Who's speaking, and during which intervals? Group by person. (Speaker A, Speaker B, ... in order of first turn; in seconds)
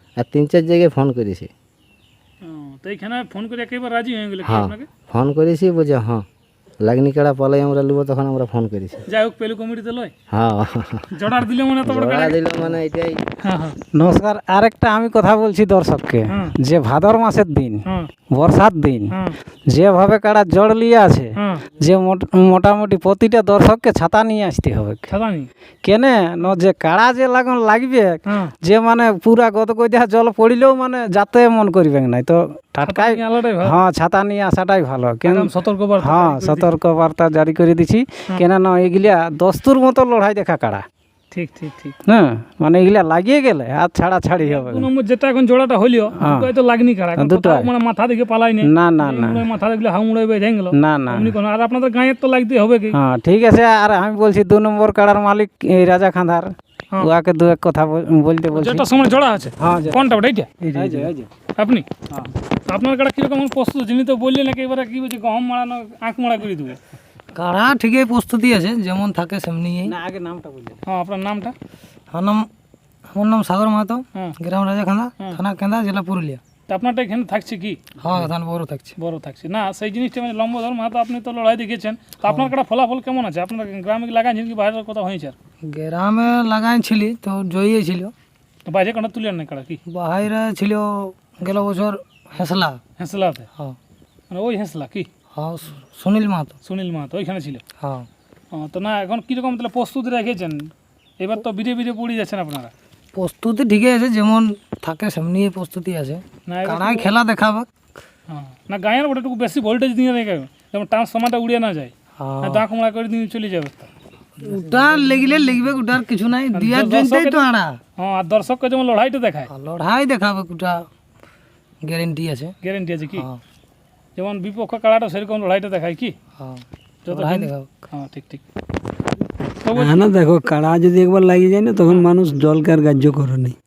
Speaker A: 0.2-1.5, 4.4-6.2, 6.8-9.0, 10.3-11.1, 11.9-13.2
Speaker B: 2.4-4.9, 9.1-10.1, 11.1-12.4, 13.4-13.8, 16.3-16.6, 21.4-21.6, 25.1-25.5, 28.3-28.5, 32.9-33.8, 35.3-36.7, 41.3-42.0, 44.4-53.0, 58.5-60.5, 61.6-61.9, 62.7-66.8, 70.8-71.5, 76.7-77.8, 79.0-85.3, 88.7-89.8, 93.0-93.5, 94.3-95.1, 96.7-97.6, 98.5-102.7, 106.5-107.1, 108.3-113.9, 116.5-117.4, 118.0-119.5, 122.6-123.3, 124.2-126.2, 127.1-128.4, 129.6-130.1
Speaker C: 13.9-17.8, 18.4-19.1, 19.7-25.1, 25.8-35.5, 36.0-40.9, 42.1-44.9, 46.2-46.5, 47.2-47.7, 48.7-49.4, 50.8-51.3, 52.9-58.9, 59.6-60.1, 60.7-61.3, 69.8-70.8
Speaker D: 67.3-69.9, 72.1-72.5, 73.1-76.4, 78.0-78.9, 85.6-88.1, 89.9-92.8, 95.3-96.6, 97.8-98.1, 103.1-107.7, 112.2-112.6, 114.4-117.8, 119.5-120.9, 121.8-122.5, 123.2-123.4, 126.4-127.7
Speaker E: 129.8-133.6